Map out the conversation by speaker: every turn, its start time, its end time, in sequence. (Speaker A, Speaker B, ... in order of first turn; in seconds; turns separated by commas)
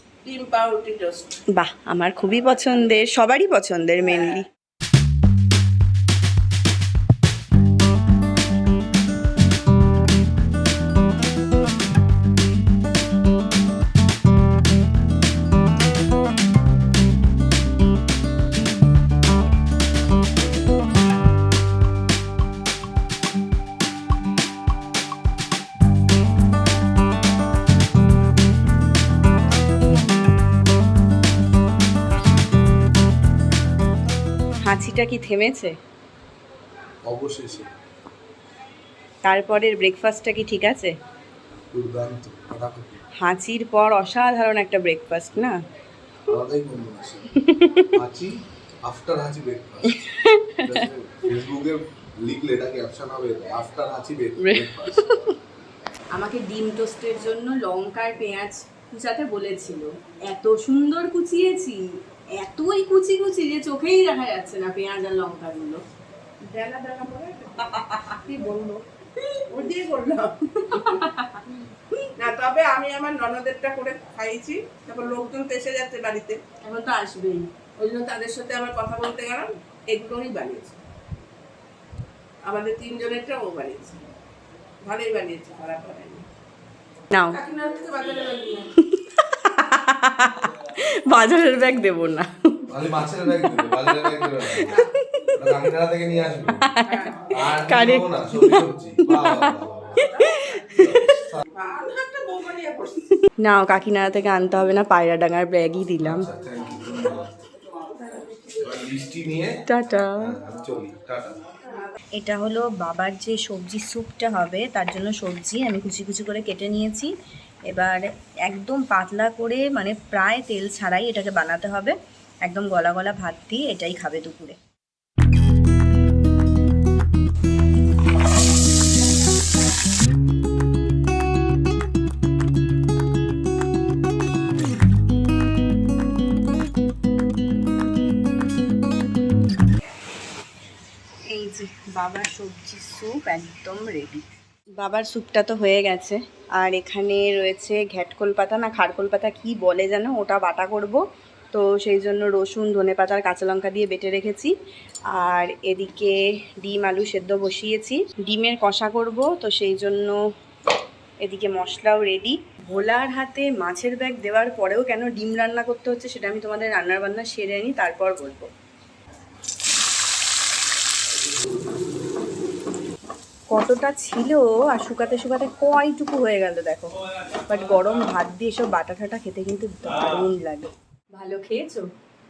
Speaker A: 0.2-1.4, Speaker B: 1.5-4.5, Speaker B: 34.6-35.8, Speaker C: 37.1-37.7, Speaker B: 39.2-40.9, Speaker C: 41.7-43.0, Speaker B: 43.2-45.6, Speaker C: 46.3-47.2, Speaker B: 47.4-48.0, Speaker C: 47.9-48.3, Speaker C: 48.9-50.0, Speaker B: 49.9-50.9, Speaker C: 50.6-55.0, Speaker B: 54.4-55.4, Speaker B: 56.1-65.8, Speaker A: 66.5-68.8, Speaker B: 67.8-68.4, Speaker A: 69.5-71.0, Speaker B: 70.7-72.1, Speaker A: 72.2-76.5, Speaker B: 76.6-77.5, Speaker A: 77.8-80.8, Speaker A: 82.5-84.1, Speaker A: 84.8-86.3, Speaker B: 87.1-87.4, Speaker A: 87.3-88.7, Speaker B: 88.8-95.4, Speaker C: 92.7-94.7, Speaker C: 95.4-96.7, Speaker B: 96.5-101.3, Speaker A: 96.8-97.3, Speaker C: 97.3-100.1, Speaker A: 100.1-100.5, Speaker C: 100.8-101.4, Speaker A: 101.5-103.2, Speaker B: 103.4-106.3, Speaker C: 106.0-107.3, Speaker C: 108.6-109.6, Speaker B: 109.7-110.3, Speaker C: 110.2-111.4, Speaker B: 112.2-117.1, Speaker B: 117.7-124.6, Speaker B: 141.3-144.2, Speaker B: 144.8-151.0, Speaker B: 151.5-154.5, Speaker B: 155.1-160.2, Speaker B: 161.2-168.5, Speaker B: 173.5-181.9